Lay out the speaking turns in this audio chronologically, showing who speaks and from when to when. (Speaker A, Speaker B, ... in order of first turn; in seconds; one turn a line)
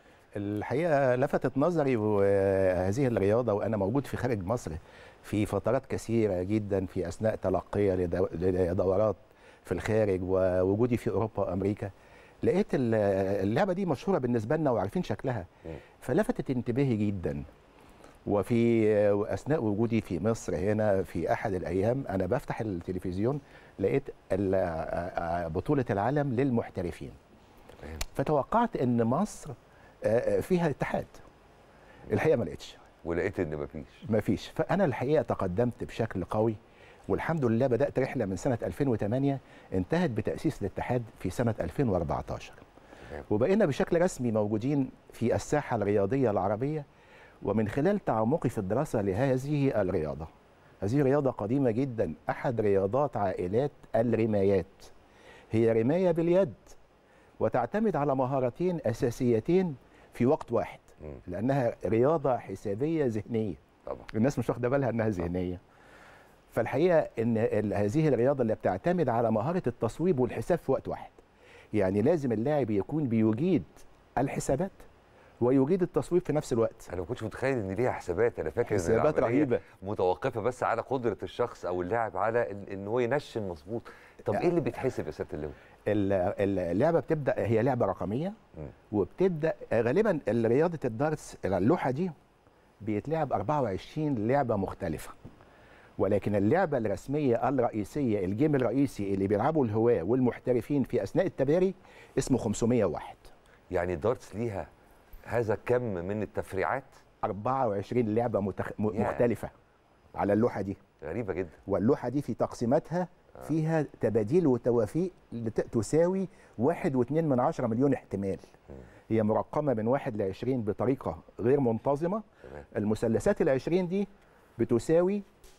Speaker A: 0.4-11.9
Speaker A: 12.4-15.5
Speaker A: 16.0-17.4
Speaker A: 18.2-27.2
Speaker A: 28.1-31.2
Speaker A: 32.1-32.8
Speaker B: 33.0-34.0
Speaker A: 34.1-36.6
Speaker A: 37.1-42.6
Speaker A: 43.3-46.9
Speaker A: 47.4-50.3
Speaker A: 50.8-54.9
Speaker A: 55.5-56.8
Speaker A: 57.4-63.6
Speaker A: 64.1-65.6
Speaker A: 66.5-71.2
Speaker A: 71.7-74.8
Speaker A: 75.4-76.9
Speaker B: 76.9-85.6
Speaker A: 78.7-79.6
Speaker A: 85.9-88.3
Speaker A: 88.9-92.1
Speaker A: 92.8-95.2
Speaker A: 96.0-103.3
Speaker B: 103.7-104.7
Speaker B: 105.3-106.9
Speaker A: 107.2-109.5
Speaker B: 108.9-109.3
Speaker A: 110.2-110.8
Speaker B: 111.0-111.6
Speaker A: 111.7-118.4
Speaker A: 119.1-125.2